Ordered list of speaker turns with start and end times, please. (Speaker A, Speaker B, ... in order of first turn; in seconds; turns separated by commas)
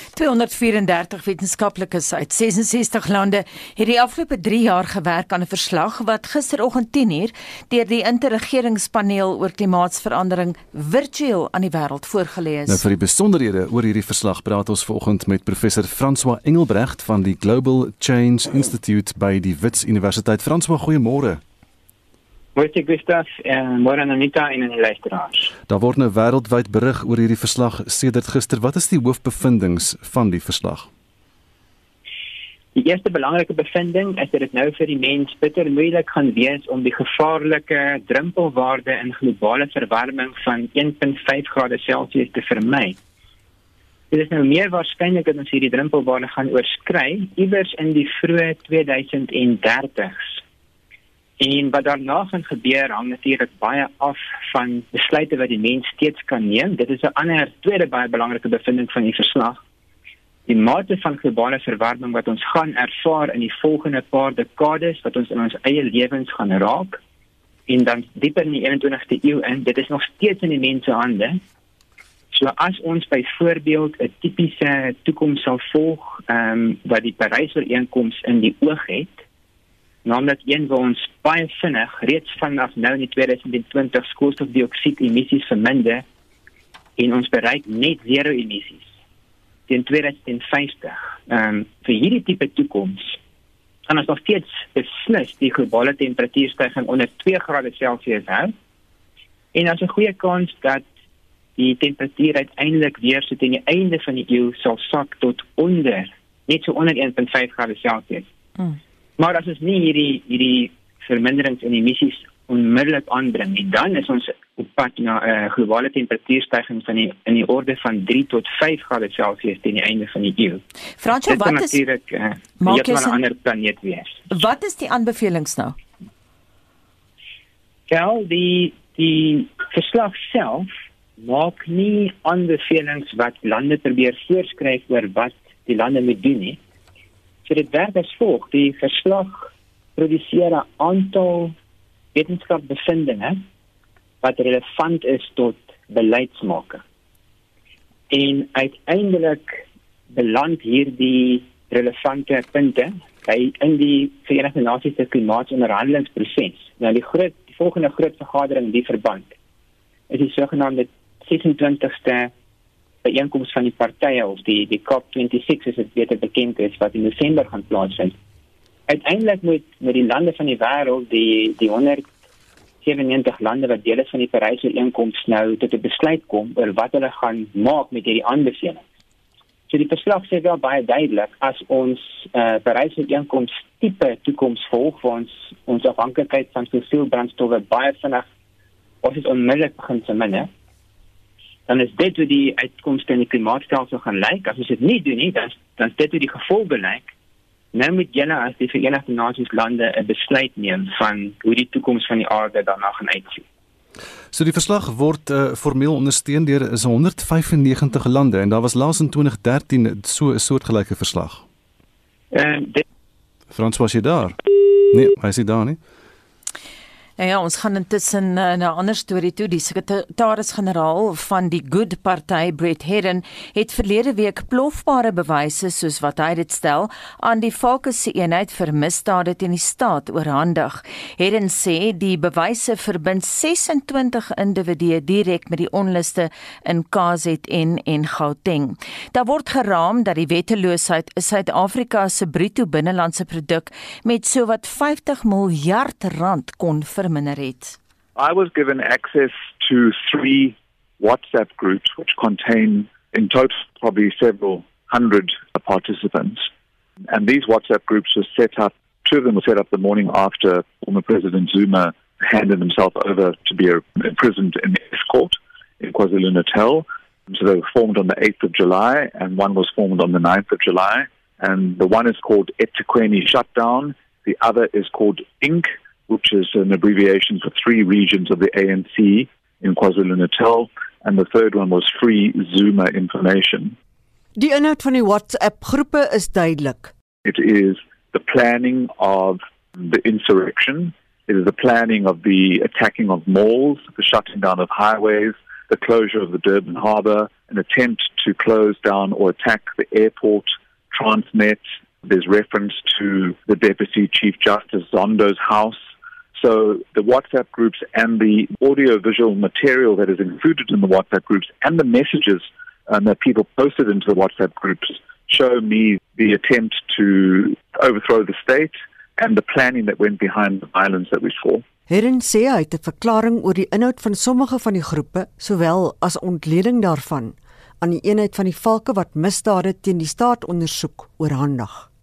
Speaker A: 0.1-12.8, Speaker B: 12.7-21.4, Speaker C: 22.6-25.5, Speaker B: 25.7-30.9, Speaker C: 32.8-43.0, Speaker C: 44.1-50.4, Speaker C: 51.4-59.6, Speaker C: 60.5-67.0, Speaker C: 67.7-71.4, Speaker C: 72.3-79.2, Speaker C: 80.0-86.0, Speaker C: 87.0-88.9, Speaker C: 89.7-93.2, Speaker C: 93.9-98.5, Speaker C: 99.5-100.8, Speaker C: 101.6-108.3, Speaker C: 109.2-120.6, Speaker A: 121.0-121.8, Speaker C: 121.3-124.3, Speaker A: 122.6-123.2, Speaker A: 124.3-125.8, Speaker C: 127.9-136.6, Speaker C: 137.4-141.6, Speaker C: 142.2-143.4, Speaker C: 144.2-146.8, Speaker C: 148.1-159.3, Speaker C: 160.1-162.3, Speaker C: 163.0-168.1, Speaker C: 168.9-172.1, Speaker C: 172.8-178.8, Speaker C: 179.7-188.3, Speaker C: 189.0-190.5, Speaker C: 191.7-197.1, Speaker C: 197.7-203.4, Speaker B: 204.3-211.4, Speaker C: 212.3-212.8, Speaker B: 213.5-214.4, Speaker B: 214.9-215.8, Speaker A: 217.2-247.8, Speaker D: 248.2-256.5, Speaker D: 257.1-283.8, Speaker E: 284.4-286.9, Speaker D: 287.2-305.8, Speaker D: 306.4-321.6, Speaker E: 321.9-331.9